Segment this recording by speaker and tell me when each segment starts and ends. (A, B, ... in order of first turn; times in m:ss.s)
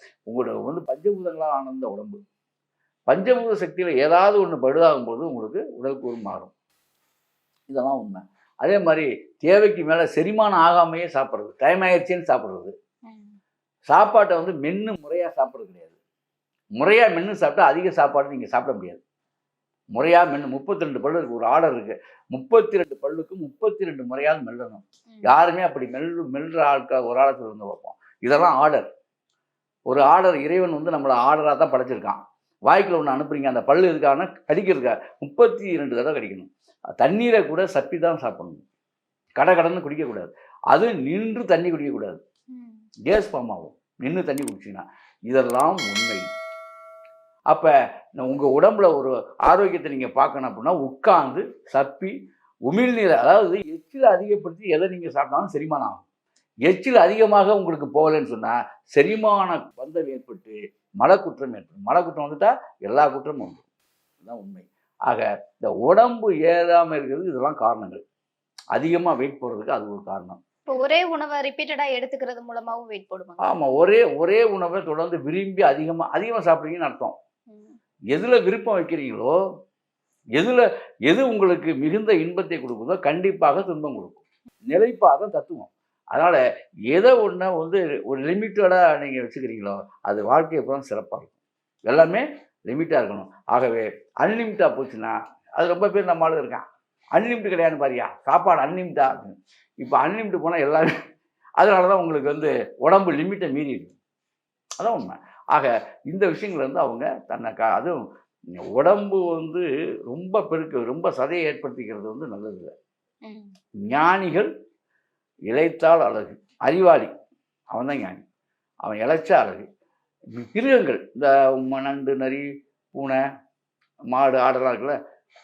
0:00.3-0:02.2 A
0:03.1-0:06.5 A
0:07.7-0:12.7 A
0:13.1-0:13.4 B
0:13.9-0:16.0 A
0:16.8-0:19.0 A
0:19.9-0:28.9 A
0:25.1-0:25.4 B
0:29.9-0:38.6 A
0:39.4-0:42.2 A
0:42.5-0:42.8 B
0:43.1-0:46.2 A
0:47.5-0:52.1 A
0:52.7-0:56.0 A
0:56.7-1:03.6 A
1:04.2-1:08.0 A
1:08.7-1:10.4 A
1:10.7-1:13.5 B
1:13.4-1:17.2 A
1:18.1-1:19.4 A
1:20.4-1:36.6 A
1:37.2-1:40.9 A
1:41.6-1:44.0 A
1:44.8-1:48.0 A
1:48.6-1:52.7 A
1:53.2-1:53.6 B
1:53.9-1:54.5 A
1:55.5-1:57.1 A
1:57.7-1:58.2 A
1:58.8-1:59.7 A
2:00.4-2:03.2 A
2:04.1-2:05.0 A